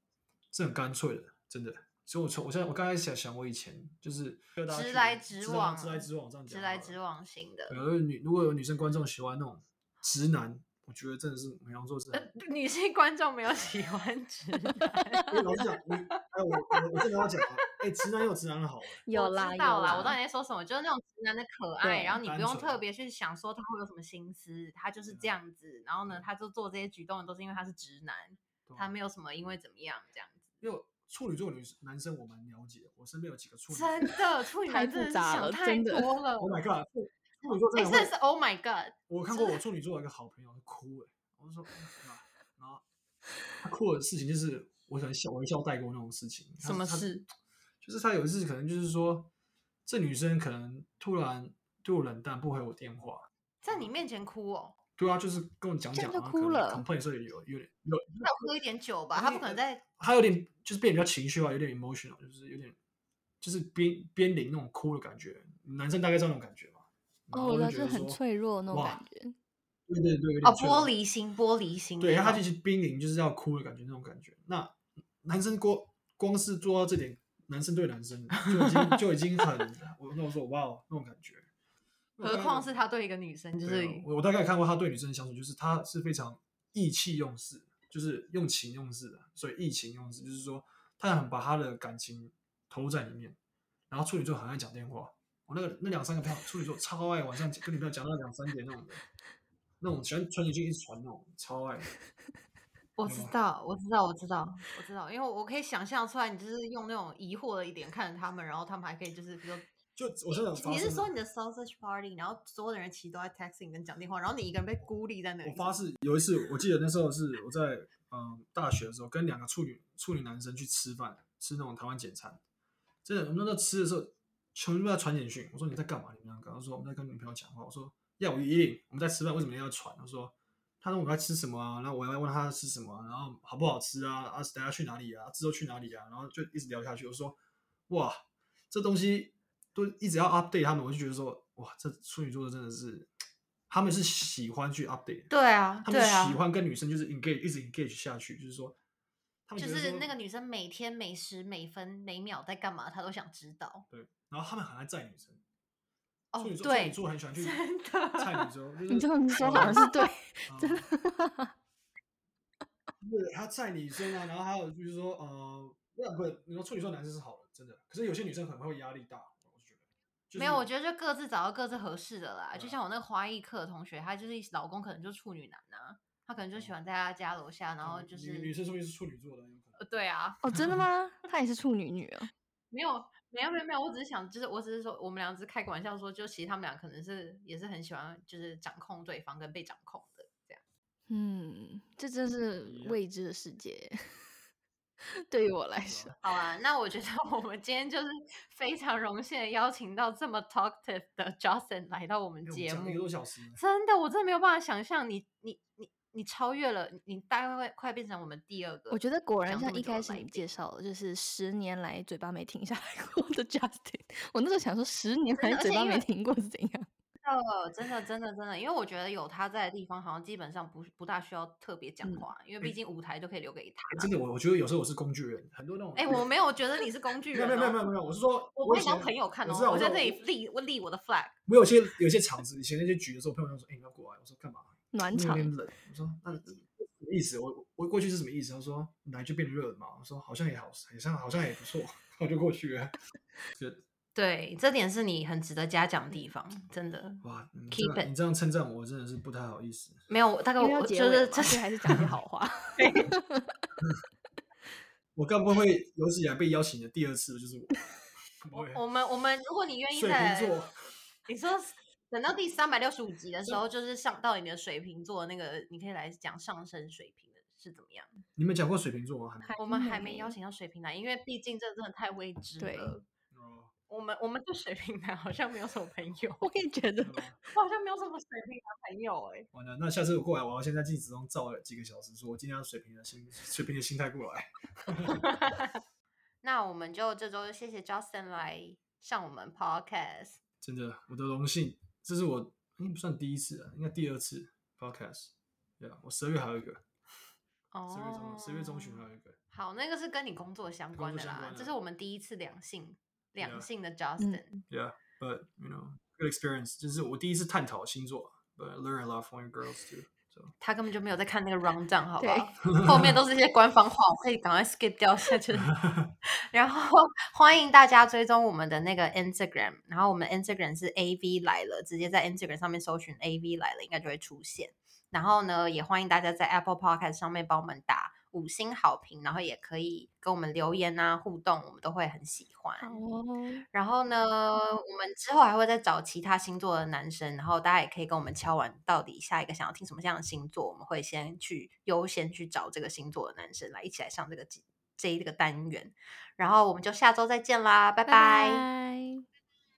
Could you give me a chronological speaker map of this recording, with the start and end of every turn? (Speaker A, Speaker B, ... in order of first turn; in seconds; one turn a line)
Speaker A: 0.5-7.0
Speaker B: 4.7-7.8
Speaker A: 7.7-12.3
Speaker B: 12.1-17.4
Speaker A: 15.3-19.0
Speaker C: 19.1-20.2
Speaker B: 19.1-30.5
Speaker A: 19.9-20.2
Speaker C: 21.8-22.2
Speaker A: 22.2-22.8
Speaker A: 25.1-25.4
Speaker A: 28.7-28.9
Speaker A: 30.6-34.2
Speaker B: 33.7-36.6
Speaker C: 34.7-36.1
Speaker A: 36.4-38.1
Speaker B: 37.7-39.6
Speaker A: 39.1-42.8
Speaker A: 43.6-47.1
Speaker B: 46.6-47.3
Speaker A: 47.8-49.3
Speaker A: 49.9-53.9
Speaker B: 53.6-54.8
Speaker A: 55.0-58.5
Speaker C: 55.9-56.9
Speaker B: 58.2-59.8
Speaker A: 59.1-62.8
Speaker A: 63.4-68.2
Speaker C: 67.3-69.4
Speaker A: 68.7-69.0
Speaker A: 69.9-70.9
Speaker B: 70.4-72.4
Speaker A: 72.0-81.5
Speaker B: 78.5-78.9
Speaker A: 82.2-82.8
Speaker B: 82.2-84.1
Speaker A: 83.6-93.4
Speaker A: 93.9-99.0
Speaker A: 99.8-101.9
Speaker B: 103.0-109.7
Speaker A: 103.1-103.3
Speaker A: 110.0-111.1
Speaker B: 110.5-115.8
Speaker A: 115.4-122.4
Speaker A: 123.0-137.4
Speaker A: 137.9-138.2
Speaker A: 138.7-143.1
Speaker A: 143.7-145.3
Speaker B: 145.3-146.4
Speaker A: 145.8-148.8
Speaker A: 149.5-150.1
Speaker B: 149.6-153.9
Speaker A: 153.9-155.4
Speaker B: 156.3-158.5
Speaker A: 156.4-157.6
Speaker A: 158.2-159.9
Speaker C: 158.9-161.5
Speaker B: 159.4-159.9
Speaker A: 160.5-160.9
Speaker A: 163.0-170.7
Speaker B: 170.4-178.5
Speaker A: 172.5-172.8
Speaker A: 177.8-179.9
Speaker B: 179.8-180.4
Speaker C: 180.4-182.3
Speaker A: 180.5-180.8
Speaker B: 182.7-190.6
Speaker C: 191.1-194.3
Speaker A: 192.6-193.0
Speaker C: 195.1-196.2
Speaker A: 195.8-196.2
Speaker B: 196.2-203.1
Speaker A: 202.4-203.6
Speaker B: 203.6-210.5
Speaker C: 208.9-216.9
Speaker B: 215.4-216.1
Speaker B: 217.2-224.1
Speaker A: 223.9-226.3
Speaker B: 226.0-227.8
Speaker A: 227.3-230.2
Speaker B: 228.6-231.4
Speaker A: 231.5-242.9
Speaker C: 234.9-235.5
Speaker A: 243.5-243.8
Speaker B: 244.2-248.1
Speaker A: 247.2-250.0
Speaker B: 250.1-251.7
Speaker C: 250.6-253.6
Speaker A: 251.9-252.1
Speaker B: 252.8-253.1
Speaker A: 255.2-257.9
Speaker A: 258.4-258.8
Speaker B: 258.5-260.6
Speaker A: 259.9-260.7
Speaker B: 261.3-268.2
Speaker A: 268.4-269.5
Speaker C: 269.4-270.4
Speaker B: 269.6-273.1
Speaker C: 272.6-272.9
Speaker A: 273.3-273.7
Speaker B: 273.9-276.5
Speaker C: 276.4-277.2
Speaker A: 277.0-277.4
Speaker B: 277.5-279.5
Speaker A: 279.5-285.5
Speaker B: 285.2-285.6
Speaker B: 286.4-290.4
Speaker A: 290.6-296.8
Speaker B: 297.7-304.6
Speaker A: 297.9-299.4
Speaker A: 301.0-301.7
Speaker A: 303.4-303.7
Speaker A: 304.7-310.5
Speaker B: 310.6-315.7
Speaker C: 312.2-312.5
Speaker A: 312.7-313.2
Speaker A: 315.6-316.1
Speaker B: 316.5-333.0
Speaker C: 332.8-333.6
Speaker B: 333.7-348.6
Speaker C: 348.1-349.2